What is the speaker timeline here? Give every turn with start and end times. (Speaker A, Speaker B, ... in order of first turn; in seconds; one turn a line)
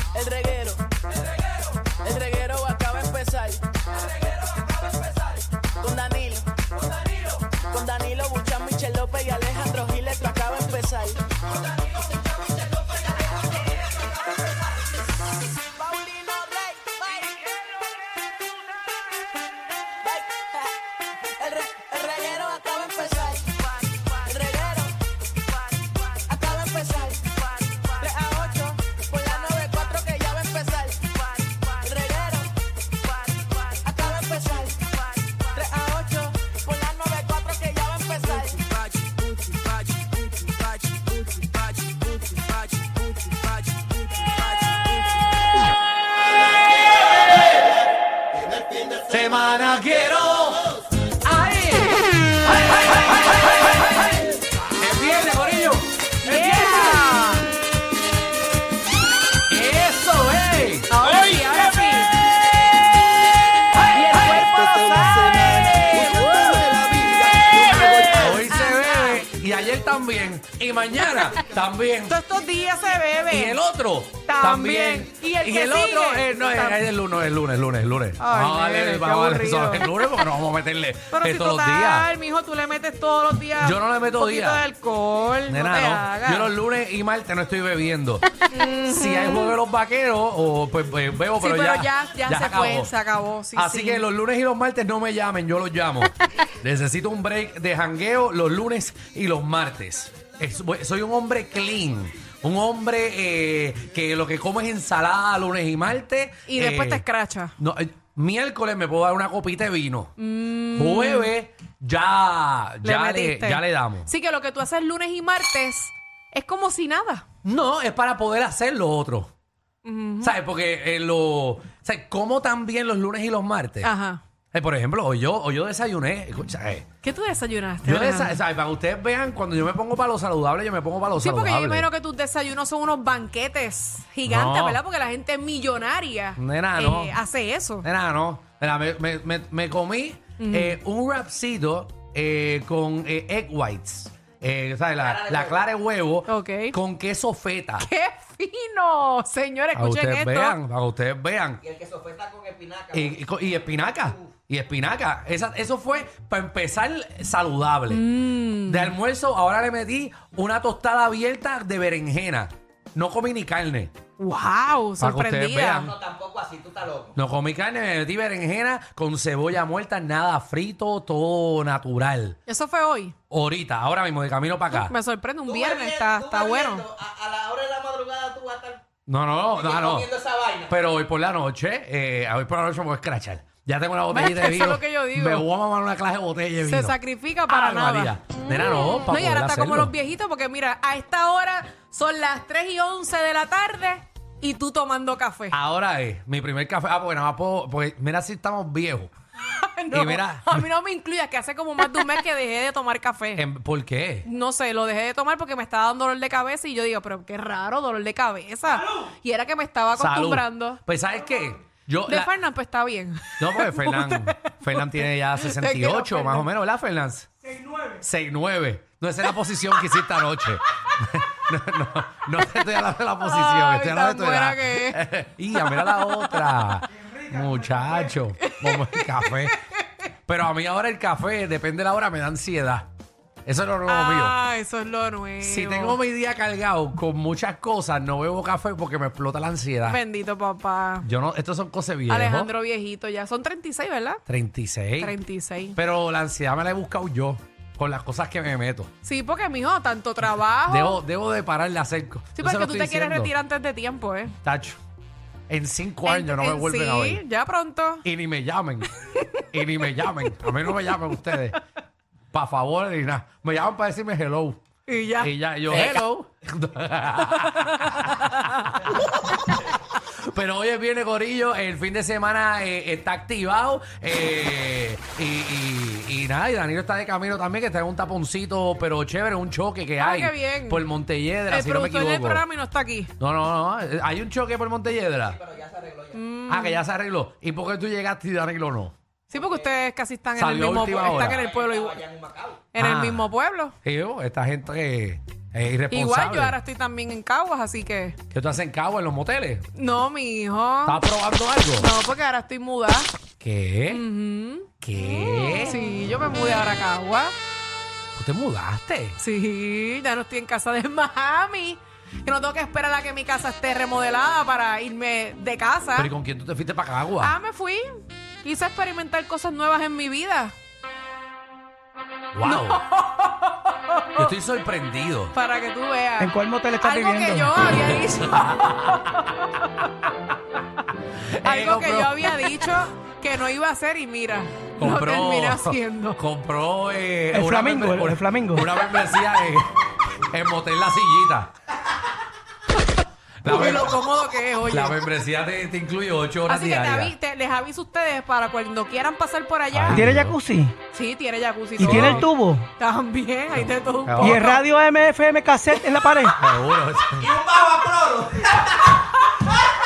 Speaker A: 0.1-0.9
Speaker A: 1.9-3.8
Speaker A: 5.7-6.6
Speaker A: 7.6-11.2
Speaker A: 15.7-17.5
Speaker A: 20.0-20.7
Speaker A: 21.3-24.9
Speaker A: 25.8-32.5
Speaker A: 33.3-39.2
Speaker A: 41.9-43.0
Speaker B: 49.1-50.6
Speaker B: 51.2-52.0
Speaker B: 54.7-57.0
Speaker C: 56.2-57.5
Speaker B: 59.5-61.0
Speaker C: 60.9-62.1
Speaker C: 63.8-66.6
Speaker A: 65.3-68.2
Speaker C: 67.6-69.2
Speaker B: 68.0-72.2
Speaker C: 72.1-73.6
Speaker B: 73.3-82.1
Speaker C: 74.3-76.8
Speaker C: 78.2-80.2
Speaker C: 81.1-86.5
Speaker B: 83.6-84.6
Speaker B: 85.5-88.3
Speaker C: 88.5-89.5
Speaker B: 88.9-92.9
Speaker C: 91.4-94.0
Speaker B: 93.5-107.0
Speaker C: 106.5-107.5
Speaker B: 107.6-110.1
Speaker C: 110.2-111.3
Speaker B: 110.7-114.1
Speaker C: 112.8-117.2
Speaker B: 117.4-119.3
Speaker C: 119.8-120.3
Speaker B: 120.2-123.9
Speaker C: 123.8-124.2
Speaker B: 124.5-126.8
Speaker C: 127.0-128.4
Speaker B: 127.8-131.9
Speaker C: 131.2-137.8
Speaker B: 134.2-134.8
Speaker B: 136.4-137.2
Speaker B: 137.8-147.9
Speaker C: 140.4-140.8
Speaker D: 145.0-145.6
Speaker C: 146.3-146.8
Speaker C: 147.8-150.6
Speaker B: 149.7-151.6
Speaker D: 151.6-153.2
Speaker B: 152.9-158.1
Speaker C: 157.9-158.9
Speaker B: 158.7-163.9
Speaker C: 164.2-165.9
Speaker B: 165.0-165.9
Speaker D: 165.8-167.1
Speaker B: 167.1-172.4
Speaker C: 172.5-173.1
Speaker B: 173.3-174.9
Speaker C: 174.7-176.8
Speaker D: 175.4-178.8
Speaker B: 179.1-180.1
Speaker D: 179.5-180.7
Speaker B: 180.7-187.0
Speaker C: 184.1-185.4
Speaker C: 186.6-195.6
Speaker B: 187.5-189.9
Speaker B: 195.5-199.1
Speaker C: 199.4-203.4
Speaker B: 199.9-200.6
Speaker B: 203.3-204.3
Speaker C: 204.2-210.8
Speaker B: 209.9-212.3
Speaker C: 212.1-216.5
Speaker B: 213.4-217.3
Speaker E: 217.5-218.0
Speaker B: 218.0-229.6
Speaker C: 223.2-225.0
Speaker C: 225.5-226.7
Speaker E: 227.0-227.8
Speaker C: 228.4-229.8
Speaker B: 230.2-232.9
Speaker B: 233.4-234.4
Speaker C: 233.8-236.0
Speaker B: 235.4-240.0
Speaker C: 239.8-241.1
Speaker B: 241.0-242.5
Speaker C: 242.1-244.2
Speaker B: 244.3-245.1
Speaker C: 245.0-245.8
Speaker B: 245.8-248.9
Speaker C: 249.0-251.0
Speaker B: 250.7-253.3
Speaker C: 252.3-254.3
Speaker B: 254.4-254.8
Speaker B: 255.5-257.2
Speaker C: 256.0-258.0
Speaker B: 258.0-258.9
Speaker B: 259.5-261.6
Speaker C: 260.3-260.9
Speaker B: 262.3-264.6
Speaker C: 264.9-266.0
Speaker B: 265.2-268.3
Speaker C: 267.4-268.6
Speaker B: 270.2-282.4
Speaker C: 280.0-280.8
Speaker C: 281.5-283.1
Speaker B: 283.2-285.4
Speaker D: 285.3-286.2
Speaker C: 286.1-286.8
Speaker B: 286.5-288.9
Speaker C: 289.3-292.0
Speaker D: 289.3-289.7
Speaker B: 290.4-291.4
Speaker D: 291.2-292.6
Speaker C: 292.7-293.7
Speaker B: 292.8-293.3
Speaker B: 293.8-296.6
Speaker C: 295.9-298.2
Speaker B: 298.3-299.7
Speaker C: 299.8-301.0
Speaker B: 300.9-301.9
Speaker C: 301.8-303.1
Speaker B: 303.4-304.0
Speaker C: 303.9-304.7
Speaker B: 304.8-305.9
Speaker C: 305.3-307.3
Speaker B: 308.1-309.2
Speaker C: 309.2-316.1
Speaker B: 315.9-317.3
Speaker C: 317.2-317.9
Speaker C: 318.4-320.5
Speaker B: 322.3-322.8
Speaker C: 322.4-324.3
Speaker B: 324.1-325.3
Speaker C: 325.3-329.3
Speaker E: 326.2-327.6
Speaker B: 327.9-329.1
Speaker B: 331.3-332.1
Speaker C: 331.4-336.2
Speaker B: 334.8-339.7
Speaker E: 337.3-338.6
Speaker B: 340.3-341.5
Speaker B: 343.4-344.0
Speaker C: 343.4-345.0
Speaker B: 344.7-347.1
Speaker C: 346.5-350.1
Speaker B: 349.7-350.4
Speaker E: 349.9-350.7
Speaker C: 350.9-354.6
Speaker E: 351.8-352.7
Speaker B: 351.8-352.3
Speaker B: 353.5-354.5
Speaker E: 354.2-356.4
Speaker B: 356.3-357.3
Speaker D: 357.2-358.6